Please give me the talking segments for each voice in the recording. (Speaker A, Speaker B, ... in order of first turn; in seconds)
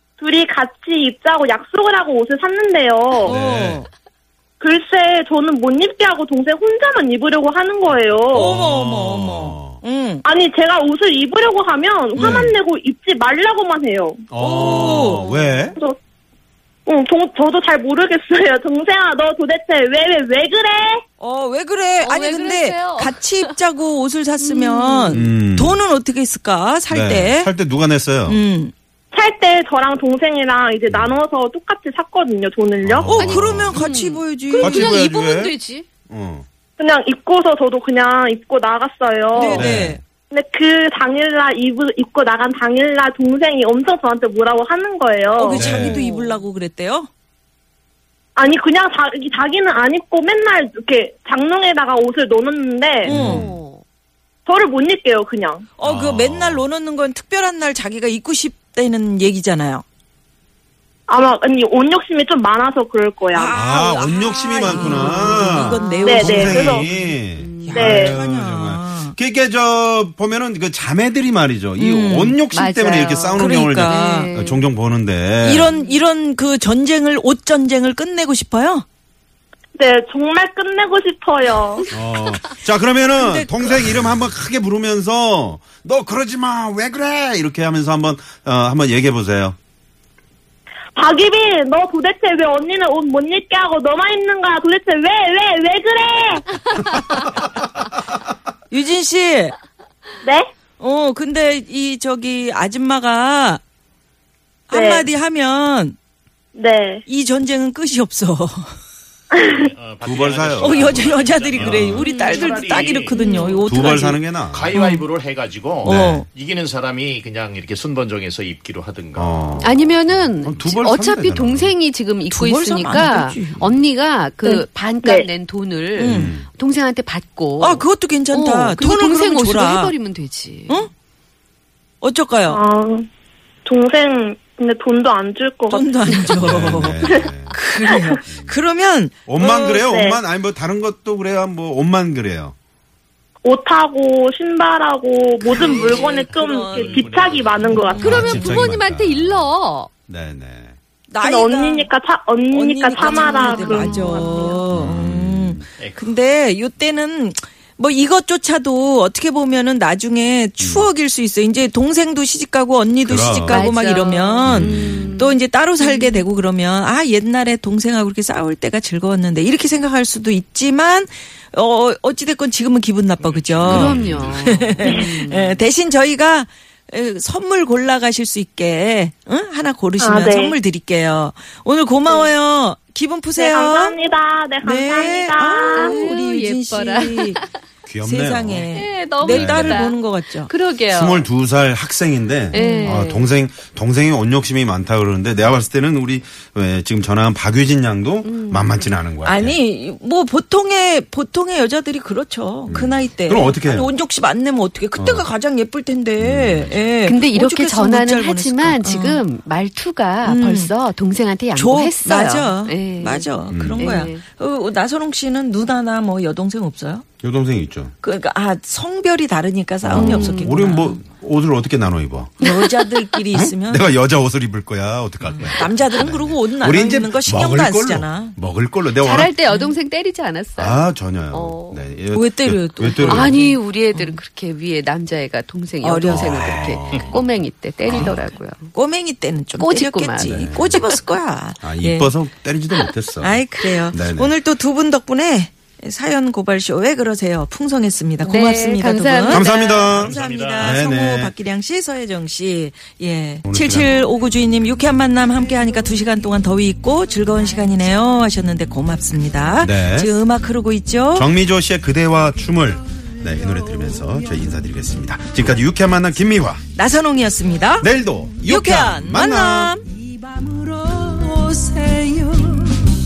Speaker A: 0.2-3.4, 4.6-8.5, 10.2-14.2, 16.9-21.0, 29.1-33.2, 36.8-39.6, 40.3-45.7, 48.4-53.1, 54.5-55.6, 61.1-63.6, 66.0-66.8, 67.7-68.2, 79.8-81.9, 91.0-96.4, 104.7-105.1, 106.5-107.0, 109.3-109.7, 124.5-125.3, 132.5-133.1, 133.7-135.9, 139.4-140.2, 143.4-148.1, 151.2-154.4, 180.0-180.6, 183.4-186.0
Speaker B: 3.2-3.9, 8.3-10.2, 12.1-12.5, 14.4-15.3, 21.2-27.5, 28.3-28.7, 33.1-35.0, 39.4-40.0, 45.4-47.1, 53.1-53.5, 55.8-59.8, 63.4-69.2, 71.8-72.4, 73.3-74.3, 75.4-78.8, 83.2-83.8, 98.7-99.5, 100.8-103.6, 104.7-106.0, 107.1-108.8, 110.6-115.0, 115.8-116.3, 122.3-123.8, 126.0-126.4, 127.6-130.0, 132.0-132.6, 135.7-139.2, 145.5-147.1, 147.7-148.5, 151.1-151.9, 152.5-184.0, 184.6-187.4, 188.0-190.5, 192.5-193.0, 199.2-209.2, 210.2-210.7, 211.6-217.1, 218.0-221.0, 222.4-223.9, 225.2-228.4, 232.1-234.2, 235.8-236.7, 237.9-242.1, 243.2-261.3, 266.7-267.9, 268.4-272.6
Speaker C: 3.2-3.9, 8.3-9.8, 12.2-12.6, 14.3-15.8, 25.1-25.8, 26.9-28.4, 30.9-31.2, 32.8-33.8, 34.6-35.5, 36.1-36.5, 39.5-40.0, 45.5-46.1, 53.1-53.6, 55.8-56.7, 63.5-75.7, 81.9-89.6, 110.0-112.0, 113.6-114.8, 115.8-116.3, 119.2-121.8, 126.0-126.5, 136.4-137.6, 138.3-138.6, 139.3-142.6, 148.0-149.6, 150.1-150.8, 154.7-155.7, 160.6-160.9, 163.0-163.7, 164.4-165.0, 173.7-174.3, 187.9-188.7, 189.3-189.9, 190.9-199.6, 202.7-203.9, 205.0-205.3, 206.2-206.9, 213.5-214.1, 217.2-217.9, 219.8-222.4, 223.3-229.3, 230.6-233.4, 236.1-237.3, 237.9-238.2, 240.2-240.8, 241.6-244.3, 249.3-251.3, 253.5-253.9, 259.6-260.2, 261.1-266.6, 267.8-269.8
Speaker D: 22.0-23.5, 24.4-25.2, 33.2-35.9, 46.0-46.4, 53.1-53.8, 64.8-66.1, 67.3-67.8, 72.5-74.7, 112.0-112.4, 113.1-113.6, 119.6-130.8, 148.0-149.9, 153.0-154.7, 163.5-166.2, 173.7-175.6, 185.8-187.5, 188.7-191.3, 192.5-193.3, 198.2-198.9, 207.1-214.2, 219.9-220.5, 222.4-222.7, 229.0-231.8, 233.1-238.7, 239.6-241.0, 248.2-249.5
Speaker E: 109.6-113.8, 114.5-120.0, 145.6-147.9, 155.8-156.2, 173.2-174.9, 249.4-250.8